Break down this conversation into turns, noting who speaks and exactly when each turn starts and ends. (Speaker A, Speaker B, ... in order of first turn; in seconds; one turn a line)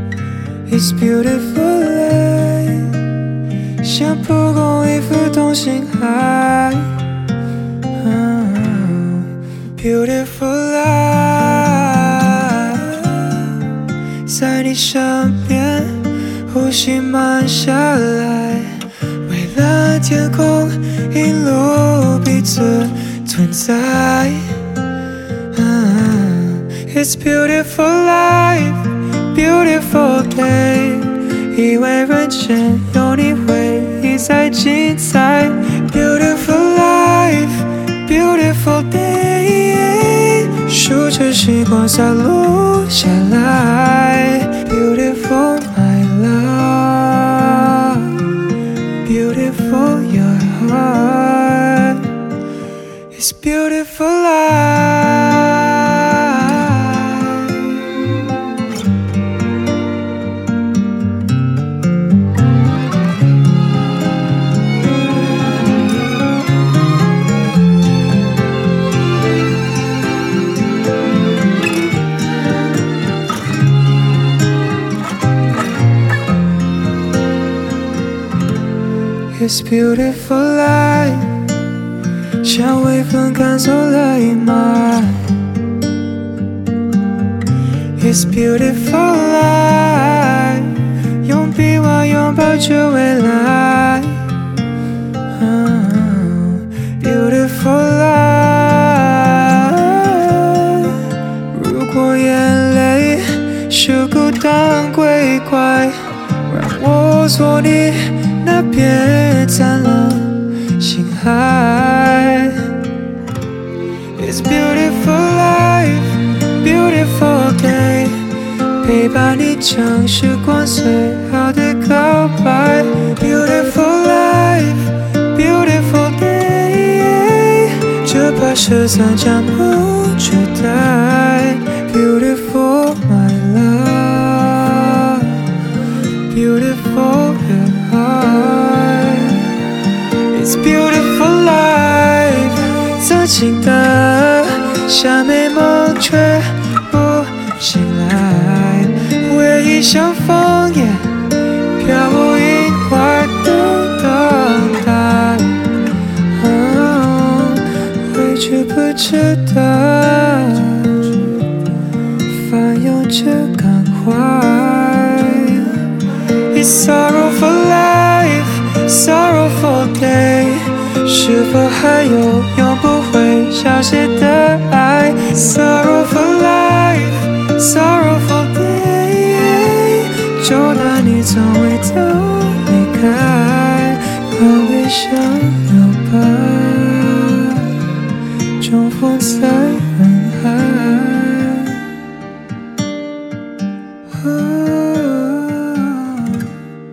Speaker A: 0.7-3.0
Speaker A: 3.8-7.0
Speaker A: 8.0-13.6
Speaker A: 14.2-24.5
Speaker A: 25.5-48.2
Speaker A: 49.0-52.1
Speaker A: 53.1-58.0
Speaker A: 79.3-81.4
Speaker A: 82.4-85.3
Speaker A: 88.0-94.2
Speaker A: 95.3-112.7
Speaker A: 114.2-118.2
Speaker A: 118.8-135.5
Speaker A: 136.3-139.6
Speaker A: 140.3-155.7
Speaker A: 156.3-161.3
Speaker A: 162.3-165.8
Speaker A: 166.5-187.9
Speaker A: 188.6-191.8
Speaker A: 194.1-196.5